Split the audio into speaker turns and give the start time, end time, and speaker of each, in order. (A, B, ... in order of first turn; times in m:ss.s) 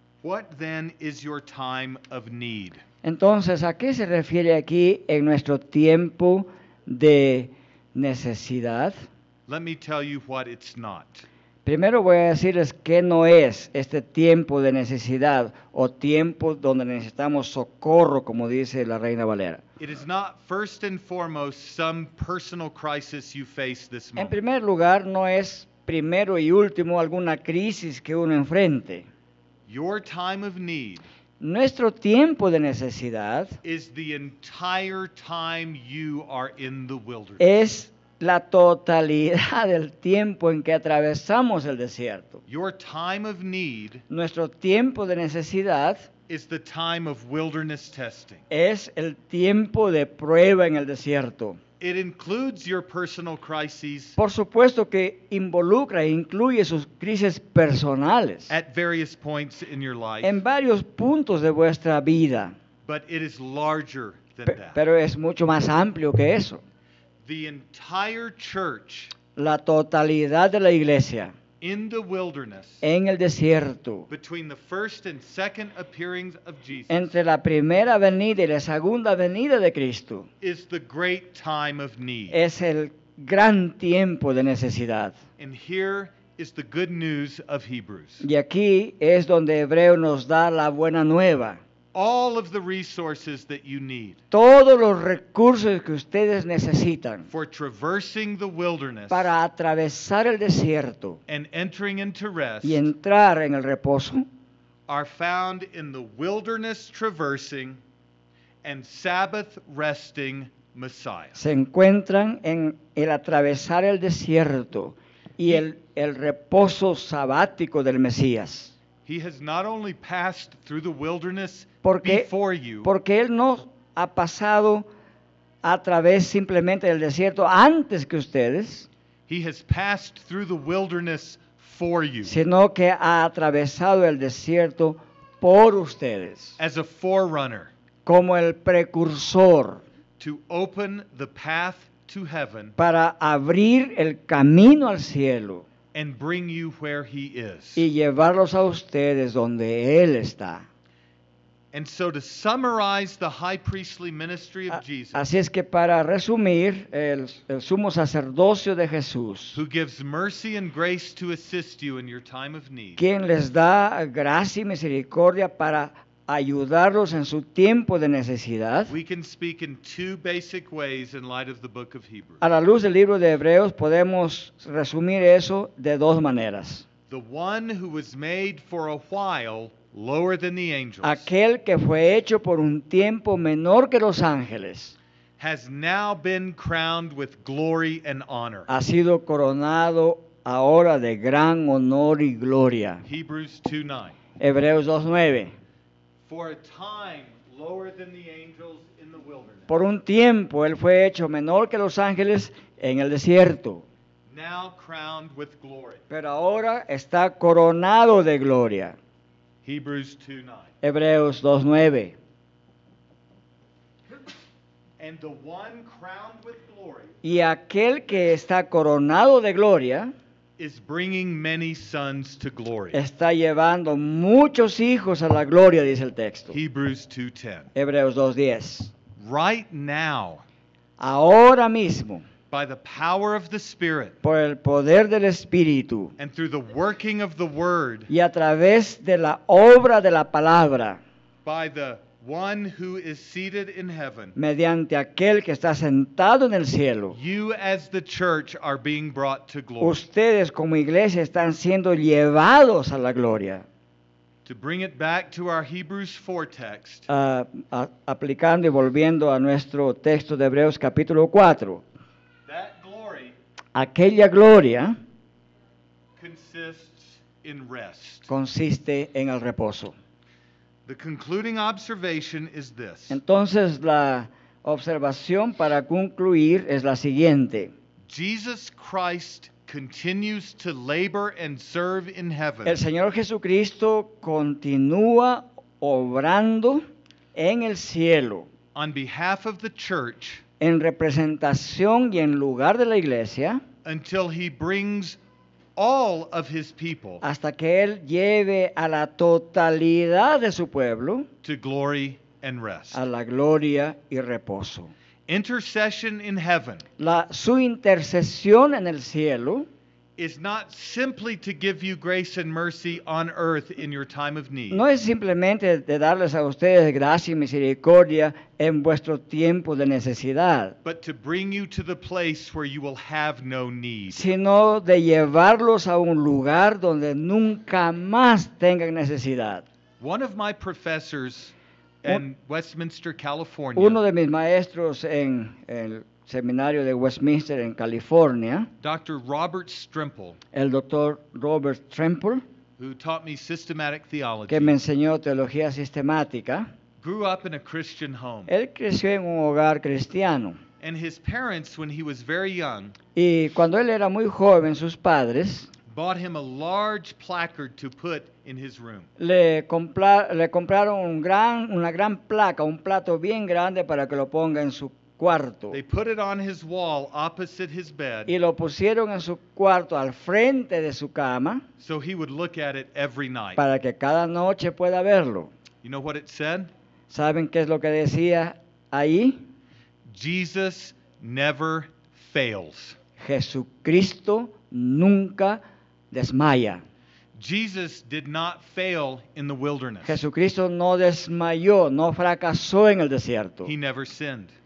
0:00.2-0:02.8 A
0:03.0-0:08.9 B
0:09.5-0:11.2 A
0:11.6-0:19.6 B
0:19.8-0:24.4 A
0:24.2-0:29.1 B
0:29.7-0:31.0 A
0:31.4-0:33.6 B
0:33.6-0:37.4 A
0:37.4-0:42.4 B
0:42.5-0:44.0 A
0:44.1-0:46.1 B
0:46.3-0:48.4 A
0:48.5-0:51.6 B
0:51.8-0:54.2 A
0:54.2-0:58.5 B
0:58.5-1:00.4 A
1:00.2-1:02.5 B
1:02.8-1:04.8 A
1:04.5-1:06.6 B
1:07.2-1:09.1 A
1:09.4-1:11.3 B
1:11.6-1:12.8 A
1:12.8-1:14.1 B
1:14.1-1:17.2 A
1:16.9-1:20.3 B
1:20.4-1:22.4 A
1:22.3-1:25.2 B
1:25.4-1:28.2 A
1:28.2-1:31.6 B
1:31.9-1:34.2 A
1:34.3-1:37.3 B
1:37.3-1:39.3 A
1:39.1-1:41.2 B
1:41.3-1:42.9 A
1:42.6-1:44.2 B
1:44.9-1:47.8 A
1:48.6-1:51.4 A
1:51.3-1:58.7 B
1:59.0-2:02.9 A
2:01.8-2:02.3 B
2:02.8-2:04.9 B
2:05.6-2:08.9 B
2:09.3-2:12.4 A
2:12.2-2:16.6 B
2:16.6-2:17.7 A
2:18.0-2:19.8 B
2:20.2-2:22.7 A
2:22.8-2:25.6 B
2:25.9-2:27.8 A
2:27.8-2:30.6 B
2:31.7-2:35.2 A
2:34.7-2:39.6 B
2:39.5-2:43.0 A
2:43.0-2:48.9 B
2:48.9-2:52.4 A
2:52.4-2:56.8 B
2:57.1-3:01.3 A
3:01.0-3:05.0 B
3:05.4-3:08.7 A
3:08.7-3:13.0 B
3:13.0-3:14.2 A
3:14.4-3:15.5 B
3:16.3-3:19.7 A
3:19.7-3:23.8 B
3:24.3-3:26.0 A
3:26.1-3:29.0 B
3:29.6-3:30.7 A
3:30.8-3:32.1 B
3:35.0-3:37.1 A
3:37.2-3:40.1 B
3:40.6-3:43.0 A
3:42.9-3:46.6 B
3:46.5-3:47.7 A
3:47.7-3:48.9 B
3:49.2-3:50.4 A
3:51.0-3:52.2 B
3:52.5-3:54.2 A
3:54.2-3:56.1 B
3:56.2-3:58.1 A
3:58.1-4:01.0 B
4:01.4-4:04.3 A
4:04.4-4:07.2 B
4:07.1-4:10.0 A
4:09.8-4:13.6 B
4:14.4-4:17.1 A
4:17.1-4:21.8 B
4:22.5-4:23.3 A
4:23.7-4:25.0 B
4:26.2-4:28.3 A
4:28.3-4:29.9 B
4:30.8-4:33.2 A
4:33.1-4:37.7 B
4:38.1-4:42.8 A
4:42.6-4:48.5 B
4:48.7-4:50.4 A
4:50.6-4:53.6 B
4:53.8-4:55.2 A
4:55.8-4:57.2 A
4:57.2-5:01.3 B
5:01.4-5:03.0 A
5:02.9-5:04.9 B
5:05.3-5:06.8 A
5:07.0-5:09.7 B
5:10.2-5:14.8 A
5:14.7-5:20.8 B
5:20.8-5:24.2 A
5:24.1-5:29.6 B
5:30.0-5:34.0 A
5:33.8-5:38.7 B
5:38.8-5:40.4 A
5:40.5-5:42.4 B
5:42.8-5:44.8 A
5:44.5-5:46.7 B
5:47.0-5:48.5 A
5:48.5-5:50.6 B
5:50.8-5:53.0 A
5:53.1-5:55.7 B
5:55.9-5:59.1 A
5:59.2-6:05.8 B
6:05.7-6:08.3 A
6:08.3-6:11.6 B
6:11.8-6:13.6 A
6:13.6-6:15.5 B
6:15.8-6:16.7 A
6:17.1-6:19.4 B
6:20.1-6:23.0 A
6:23.2-6:26.8 B
6:27.4-6:30.2 A
6:30.0-6:33.7 B
6:33.6-6:34.5 A